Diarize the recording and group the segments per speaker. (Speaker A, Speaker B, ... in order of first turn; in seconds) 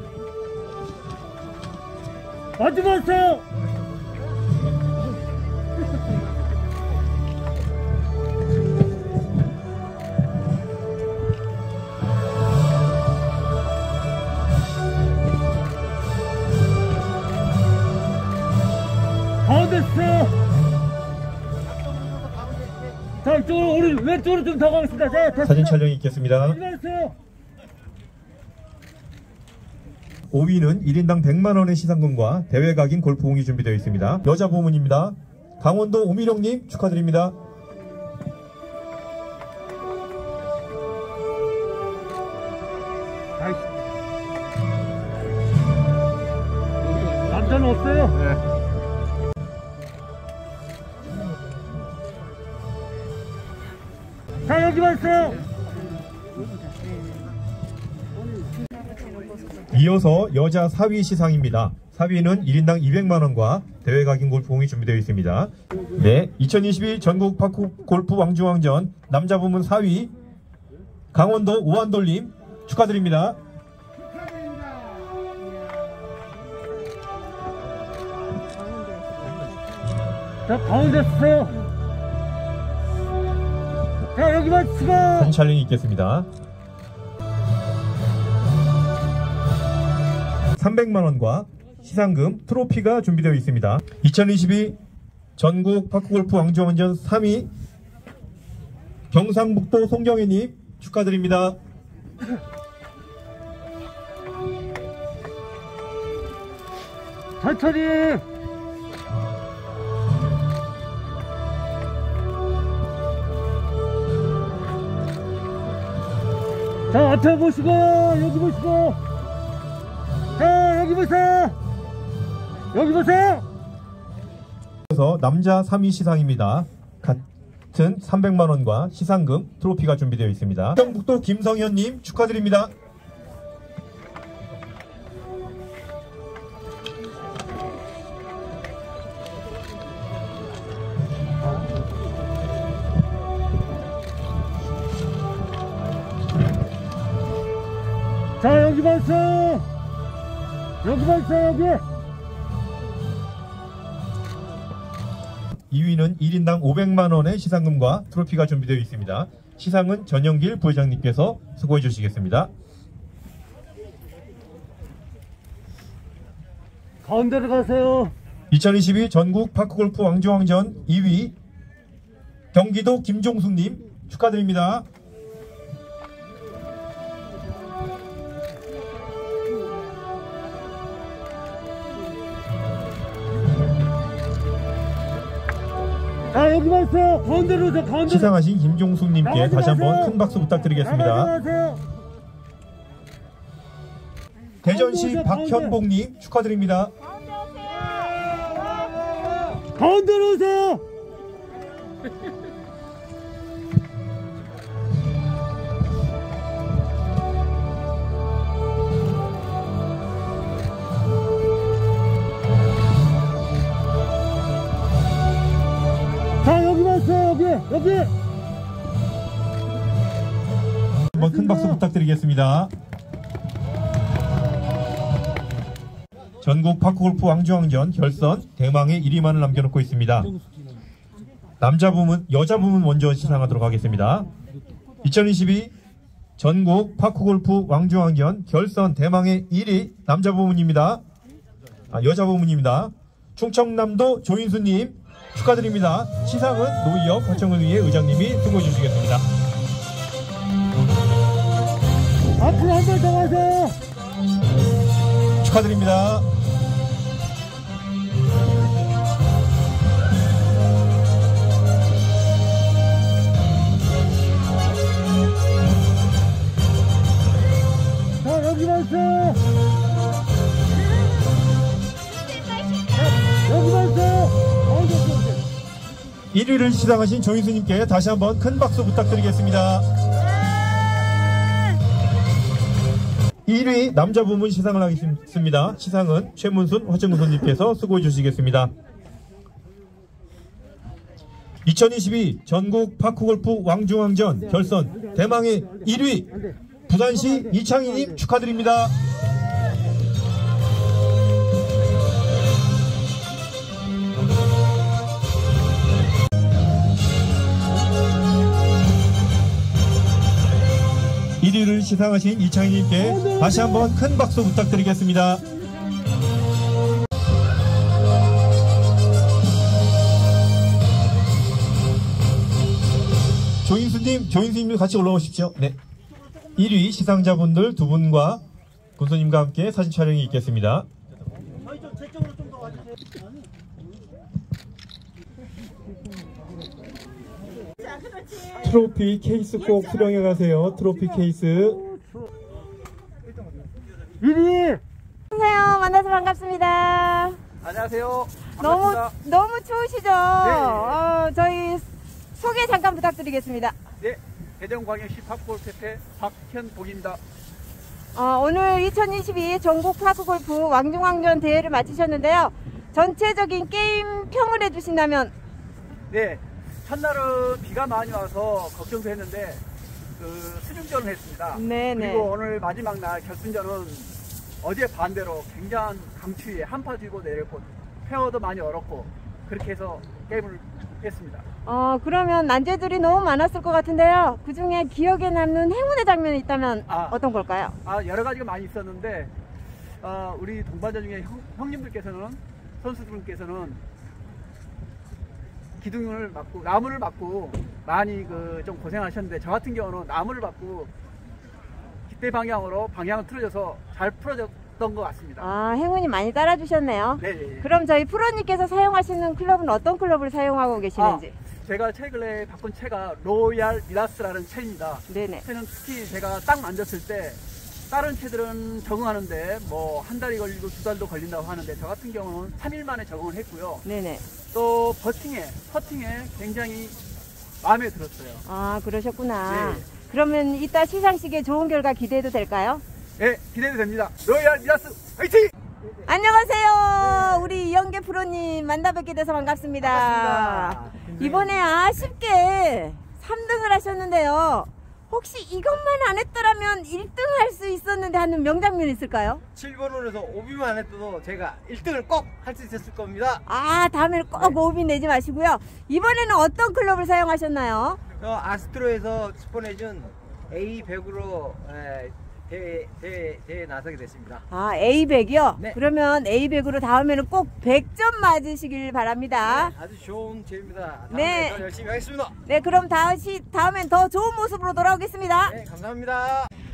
Speaker A: 2.6-3.4, 19.5-20.3, 23.2-25.5, 26.7-27.1, 47.3-48.2, 54.5-55.4, 80.5-81.5, 84.1-85.2, 107.4-108.2, 116.9-119.0, 120.4-121.5, 122.7-123.4, 148.4-149.6, 150.8-151.8, 167.0-168.1, 186.3-188.2, 189.3-190.1, 191.2-191.8, 194.8-195.7, 199.7-200.8, 216.4-218.1, 252.4-253.8, 268.2-269.4, 273.4-275.4, 344.2-344.8
Speaker B: 25.4-26.6, 30.3-37.4, 59.7-70.1, 71.1-73.4, 85.0-86.3, 90.6-94.8, 95.4-97.5, 99.1-101.6, 124.9-132.7, 155.7-162.5, 168.5-171.3, 172.5-174.8, 188.0-191.4, 194.6-196.9, 221.1-222.7, 226.4-230.3, 231.6-234.3, 235.0-235.7, 236.4-241.0, 241.9-249.2, 255.4-256.3, 276.3-279.9, 283.4-288.7, 291.6-298.9, 311.4-315.4, 323.6-325.8, 326.6-328.4, 329.0-330.9, 338.5-341.8
Speaker C: 197.0-198.3, 345.3-347.4, 348.6-353.8, 358.1-365.3, 371.5-372.3, 381.6-387.8, 405.4-411.4, 415.1-415.4, 423.8-424.2, 428.4-432.8, 436.1-449.4, 453.5-458.0, 464.5-469.7, 471.1-471.7, 472.4-475.6
Speaker D: 347.6-349.1, 350.4-351.0, 354.0-357.2, 366.1-369.6, 370.2-374.1, 374.6-381.4, 386.9-387.2, 387.8-389.3, 390.0-393.8, 395.8-400.9, 402.1-405.5, 407.2-407.7, 410.9-423.8, 424.5-426.9, 427.6-428.4, 429.4-429.8, 433.2-435.5, 437.0-437.3, 440.4-440.8
Speaker E: 439.8-441.5, 449.5-453.4, 454.3-454.6, 458.2-464.4, 469.4-472.4, 475.5-476.5